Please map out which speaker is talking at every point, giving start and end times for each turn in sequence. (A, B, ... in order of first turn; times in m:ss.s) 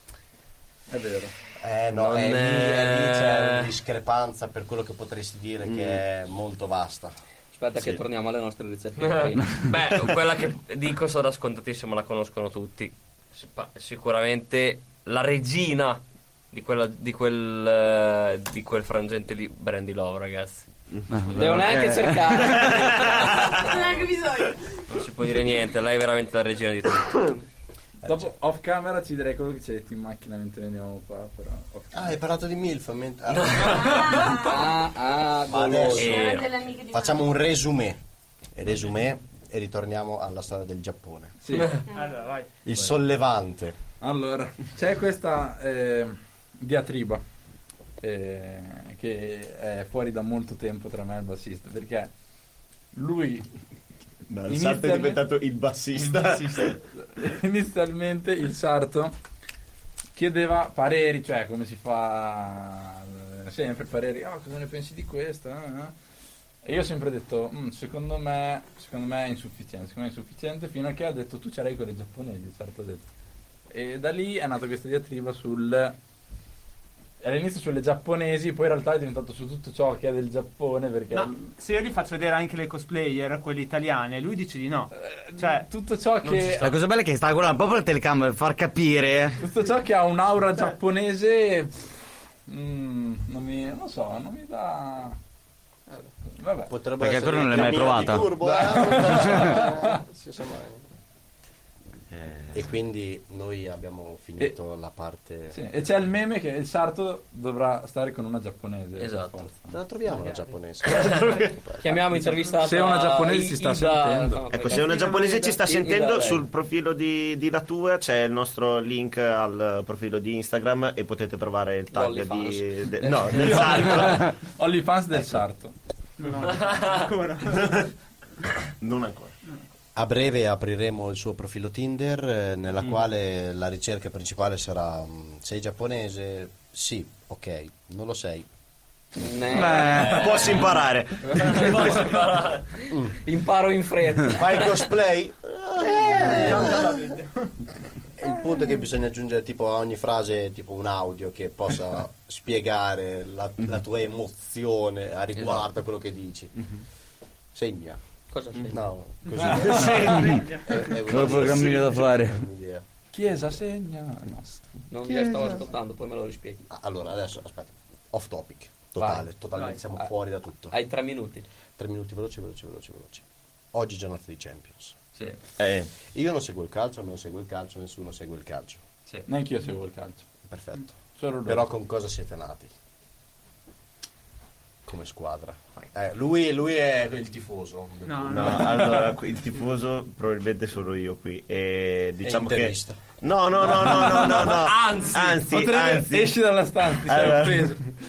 0:00.9-0:01.3 A
0:01.6-0:07.1 B
0:01.9-0:03.7 C
0:05.6-0:06.0 D
0:07.5-0:09.6 E
0:09.0-0:20.6 C
0:21.1-0:22.6 F
0:21.3-0:23.4 E
0:22.5-0:24.1 C
0:22.7-0:23.6 D
0:23.6-0:24.8 G
0:24.9-0:27.4 C
0:28.0-0:32.2 A
0:31.9-0:34.2 B
0:33.3-0:34.4 C
0:33.6-0:34.6 G
0:34.2-0:36.3 E
0:35.5-0:38.0 B
0:35.9-0:36.6 C
0:36.0-0:37.3 G
0:38.5-0:41.4 B
0:41.4-0:41.8 A
0:41.5-0:41.8 C
0:41.9-0:42.5 H
0:42.6-0:43.8 B
0:44.0-0:47.2 A
0:48.0-0:52.1 A
0:52.9-0:53.5 A
0:54.3-0:56.8 D
0:54.5-0:55.2 A
0:57.0-0:59.1 A
1:00.1-1:05.9 A
1:06.6-1:13.0 A
1:13.7-1:16.0 A
1:17.2-1:21.5 A
1:21.1-1:25.7 H
1:24.9-1:26.7 A
1:26.2-1:26.7 C
1:26.6-1:29.4 F
1:29.4-1:31.9 A
1:32.5-1:35.2 A
1:36.4-1:36.7 A
1:36.7-1:40.8 B
1:37.0-1:38.4 F
1:37.6-1:38.1 D
1:38.4-1:40.0 A
1:39.1-1:39.6 F
1:42.5-1:45.6 B
1:45.5-1:49.7 A
1:49.0-1:49.4 C
1:49.7-1:52.0 B
1:50.9-1:51.2 C
1:51.8-1:56.4 E
1:52.6-1:54.4 A
1:54.5-2:04.4 D
1:55.0-1:55.3 H
2:01.9-2:03.8 E
2:03.4-2:05.7 A
2:06.2-2:07.8 H
2:06.4-2:07.1 C
2:07.6-2:07.8 D
2:08.8-2:09.4 D
2:09.9-2:18.4 B
2:19.2-2:20.1 E
2:19.6-2:20.7 C
2:19.7-2:20.6 A
2:20.0-2:21.7 D
2:21.2-2:22.8 C
2:22.9-2:23.2 B
2:23.2-2:24.8 E
2:24.3-2:27.0 B
2:26.0-2:27.5 H
2:28.2-2:36.6 B
2:37.5-2:38.0 B
2:38.3-2:38.8 E
2:38.7-2:42.8 B
2:39.4-2:40.2 A
2:39.6-2:40.8 H
2:40.8-2:42.4 F
2:43.1-2:44.6 A
2:44.9-2:46.6 E
2:45.1-2:45.6 B
2:46.7-2:50.7 B
2:49.0-2:49.3 E
2:50.7-2:51.4 E
2:51.8-2:55.0 B
2:55.6-2:55.9 D
2:56.1-2:58.8 B
2:59.3-3:00.2 A
3:00.5-3:02.7 B
3:01.2-3:01.7 A
3:04.8-3:08.7 B
3:08.0-3:08.9 H
3:08.3-3:17.8 D
3:12.2-3:13.0 B
3:13.6-3:14.5 A
3:13.9-3:15.4 C
3:15.1-3:17.8 A